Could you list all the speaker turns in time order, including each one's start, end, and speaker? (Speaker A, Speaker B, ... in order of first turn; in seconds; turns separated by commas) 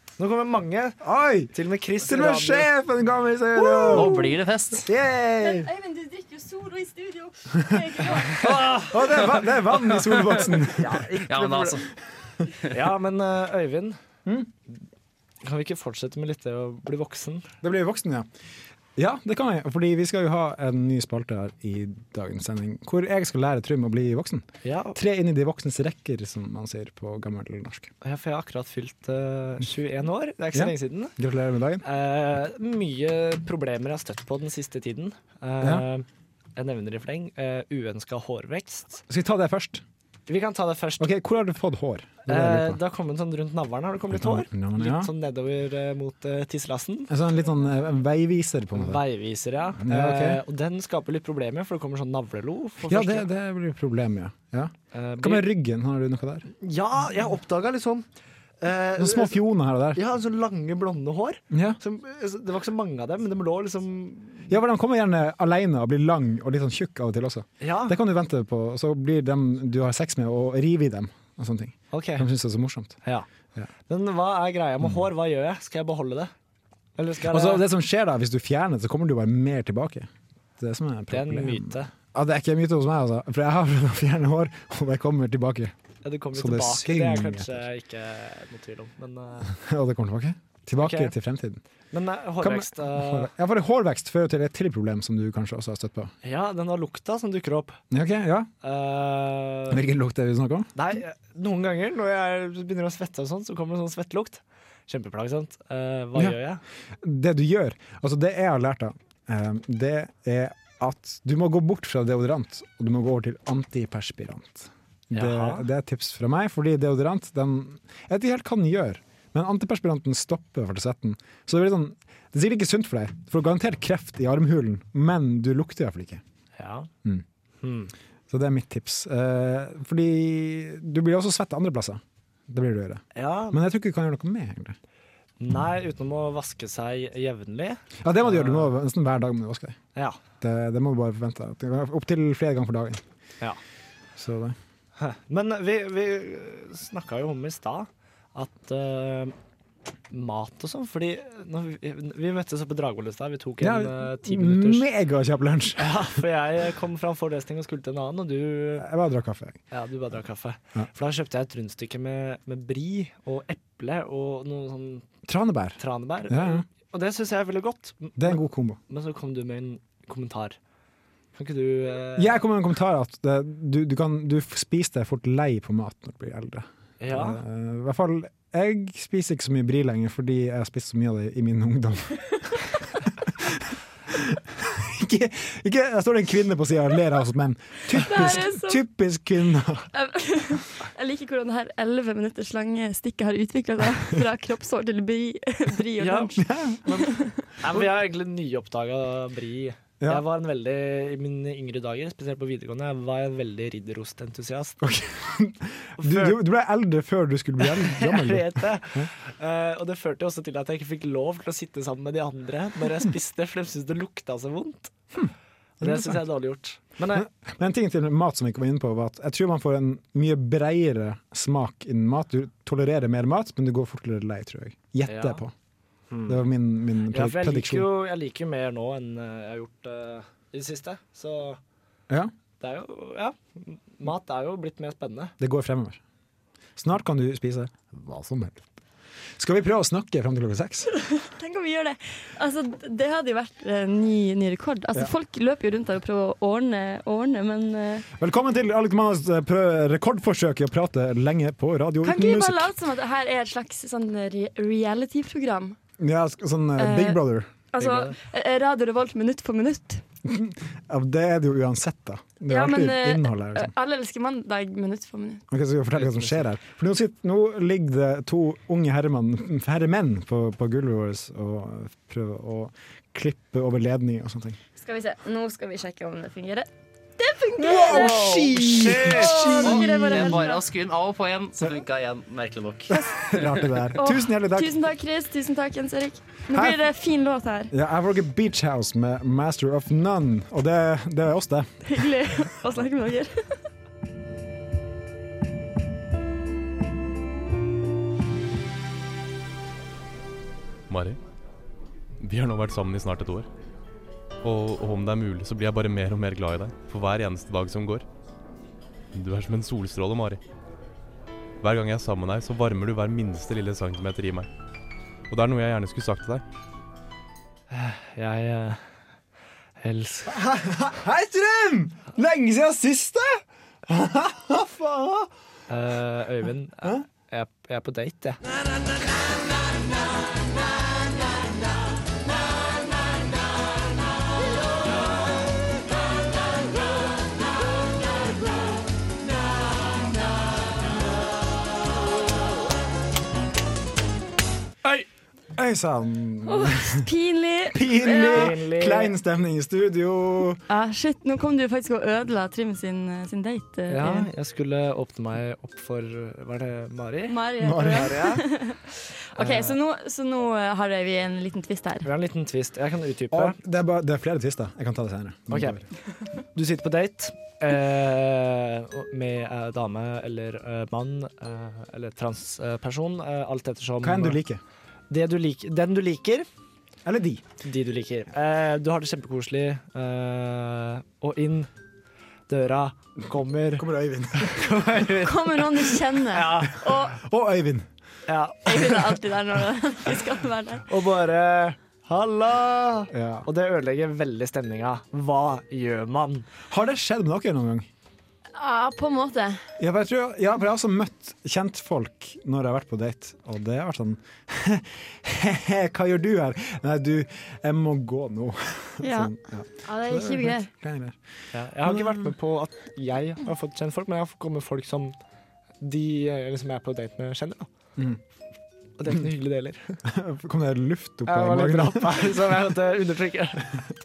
Speaker A: 0.2-1.0, Speaker B: 1.0-5.7, Speaker A: 1.5-2.7, Speaker C: 3.8-4.9, Speaker D: 5.4-8.4, Speaker A: 8.3-11.8, Speaker B: 8.4-11.1, Speaker C: 10.9-11.8, Speaker A: 12.7-14.0, Speaker A: 15.4-17.5, Speaker B: 17.6-18.3, Speaker B: 19.0-27.9, Speaker A: 24.6-25.0, Speaker A: 28.0-31.1, Speaker B: 30.5-31.9, Speaker A: 31.8-39.0, Speaker B: 39.1-39.8, Speaker A: 40.3-41.1, Speaker B: 41.0-42.8, Speaker A: 42.3-47.1, Speaker B: 44.1-45.1, Speaker B: 47.1-49.0, Speaker A: 48.8-53.3, Speaker B: 49.8-50.4, Speaker B: 52.9-56.5, Speaker A: 54.9-55.5, Speaker A: 56.6-58.1, Speaker A: 58.6-59.4, Speaker B: 59.0-60.0, Speaker A: 60.0-64.5, Speaker B: 61.5-61.8, Speaker B: 64.5-73.0, Speaker A: 67.6-68.0, Speaker A: 71.9-72.3, Speaker A: 73.9-76.3, Speaker A: 77.0-77.6, Speaker B: 77.2-85.7, Speaker A: 81.1-81.9, Speaker A: 86.0-89.5, Speaker B: 86.3-87.6, Speaker B: 89.5-91.6, Speaker A: 90.8-91.1, Speaker A: 91.9-93.3, Speaker B: 92.4-96.1, Speaker A: 96.2-97.8, Speaker B: 97.9-98.5, Speaker A: 98.6-99.8, Speaker B: 99.7-100.7, Speaker A: 100.8-106.6, Speaker B: 107.0-126.2, Speaker A: 115.1-115.7, Speaker A: 126.6-126.9, Speaker A: 127.6-127.9, Speaker B: 128.3-134.8, Speaker A: 133.2-133.6, Speaker A: 135.4-138.7, Speaker B: 138.0-139.8, Speaker B: 140.4-143.0, Speaker B: 144.2-144.6, Speaker A: 145.0-149.3, Speaker A: 150.1-154.9, Speaker B: 153.6-156.2, Speaker A: 155.8-158.9, Speaker B: 158.8-159.6, Speaker A: 159.7-165.1, Speaker B: 165.3-166.7, Speaker A: 165.8-170.6, Speaker B: 168.2-168.8, Speaker A: 171.3-172.4, Speaker B: 172.2-189.9, Speaker A: 177.0-177.4, Speaker D: 187.9-188.8, Speaker D: 189.9-197.4, Speaker A: 196.0-196.4, Speaker B: 196.4-197.8, Speaker A: 197.6-204.8, Speaker B: 204.8-209.1, Speaker A: 206.0-206.4, Speaker A: 207.6-215.0, Speaker B: 215.2-216.2, Speaker A: 215.8-217.3, Speaker B: 217.1-225.5, Speaker A: 225.1-225.4, Speaker A: 226.1-226.4, Speaker B: 226.3-227.9, Speaker A: 227.1-231.6, Speaker A: 232.6-235.3, Speaker B: 235.4-236.0, Speaker B: 236.8-238.7, Speaker B: 239.4-240.9, Speaker D: 240.9-248.1, Speaker B: 248.2-252.7, Speaker D: 252.0-255.8, Speaker B: 256.0-257.5, Speaker D: 256.8-257.2, Speaker D: 257.7-260.0, Speaker A: 257.8-258.1, Speaker B: 260.2-263.7, Speaker D: 262.5-265.4, Speaker B: 265.5-274.6, Speaker A: 265.9-266.4, Speaker D: 274.8-278.4, Speaker B: 277.6-280.4, Speaker A: 277.9-279.6, Speaker D: 279.0-280.6, Speaker C: 279.1-283.5, Speaker B: 282.9-284.8, Speaker D: 283.9-287.7, Speaker B: 286.5-286.8, Speaker B: 287.7-292.1, Speaker D: 291.9-293.4, Speaker E: 300.9-301.2, Speaker E: 302.2-303.5, Speaker E: 304.4-308.1, Speaker E: 309.1-310.4, Speaker E: 311.6-314.5, Speaker E: 315.3-316.4, Speaker A: 317.7-318.8, Speaker A: 319.8-320.4, Speaker B: 320.3-325.3, Speaker A: 325.7-328.4, Speaker B: 345.6-347.1, Speaker D: 346.4-348.5, Speaker B: 347.7-350.6, Speaker A: 348.2-349.2, Speaker D: 350.7-354.3, Speaker A: 353.9-358.5, Speaker D: 357.3-362.1, Speaker B: 357.6-358.3, Speaker A: 359.4-359.8, Speaker A: 362.1-363.6, Speaker B: 363.3-365.9, Speaker A: 365.5-365.8, Speaker A: 366.5-374.4, Speaker B: 374.0-374.6, Speaker A: 375.1-376.5, Speaker B: 377.1-377.4, Speaker A: 377.6-381.7, Speaker A: 382.5-386.8, Speaker B: 383.8-384.7, Speaker D: 385.2-387.2, Speaker B: 386.8-387.9, Speaker A: 388.3-389.2, Speaker D: 388.7-390.9, Speaker A: 390.9-396.5, Speaker B: 393.1-393.5, Speaker B: 396.7-397.9, Speaker D: 398.5-399.6, Speaker B: 399.8-411.2, Speaker D: 409.0-410.7, Speaker A: 411.5-415.1, Speaker B: 411.8-412.3, Speaker A: 415.8-417.7, Speaker A: 419.0-420.0, Speaker B: 420.1-422.6, Speaker A: 421.3-423.7